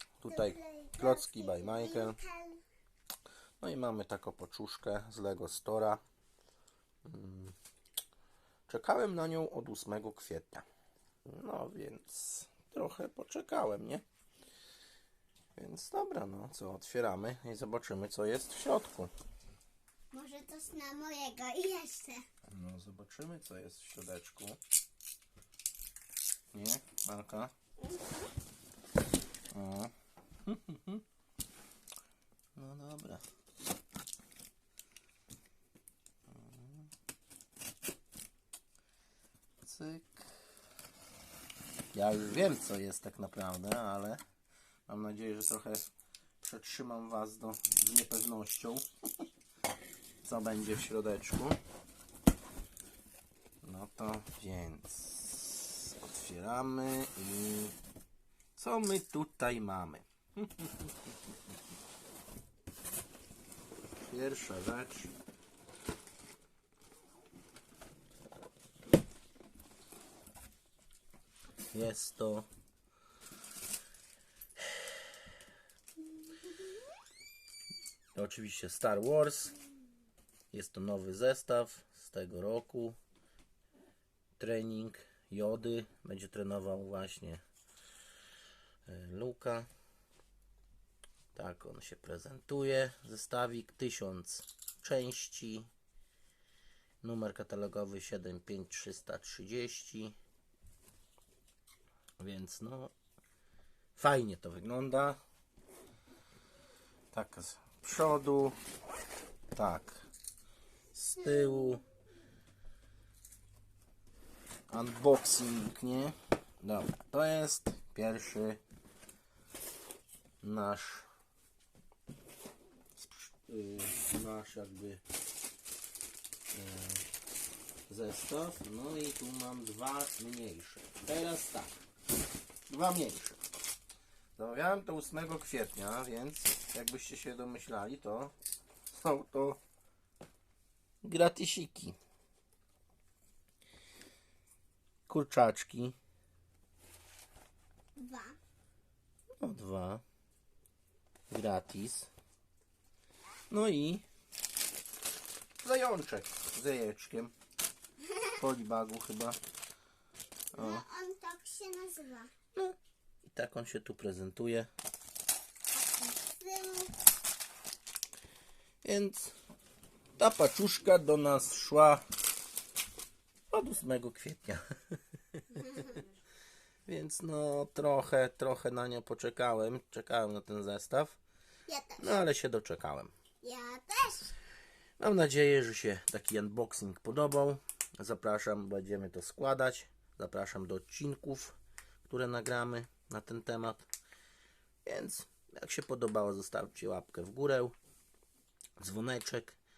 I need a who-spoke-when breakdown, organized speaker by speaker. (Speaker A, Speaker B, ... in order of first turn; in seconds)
Speaker A: 0.2-2.2, 3.6-6.0, 7.0-7.5, 8.7-10.6, 11.3-14.0, 15.6-19.1, 22.5-24.6, 26.5-27.5, 29.5-29.9, 30.4-31.0, 32.5-33.2, 36.3-36.9, 39.6-40.3, 41.9-44.2, 44.9-48.9, 50.2-51.6, 53.6-57.8, 58.5-60.9, 64.1-65.1, 71.7-72.5, 78.1-79.5, 80.5-83.0, 84.4-87.4, 88.8-89.7, 91.3-95.7, 97.0-100.2, 102.2-102.9, 104.0-105.2, 107.1-108.6, 109.5-110.1, 110.9-111.8, 114.7-118.6, 120.4-121.1, 123.0-125.0, 126.5-127.1, 127.9-131.8, 132.7-133.4, 134.4-138.3, 138.9-139.6, 141.0-141.9, 145.1-145.9, 149.4-150.0, 151.3-152.1, 153.5-154.1, 155.6-157.3, 158.3-159.4, 160.5-160.8, 162.5-164.7, 168.8-169.3, 170.2-172.0, 173.5-174.6, 175.4-176.0, 176.8-181.2, 182.0-183.1, 185.0-193.9, 194.8-197.7, 198.8-199.6
Speaker B: 0.3-2.6, 20.1-22.2, 27.8-28.3, 148.0-148.4, 160.5-162.3, 165.7-166.9, 175.6-176.0, 181.7-182.2, 183.4-184.3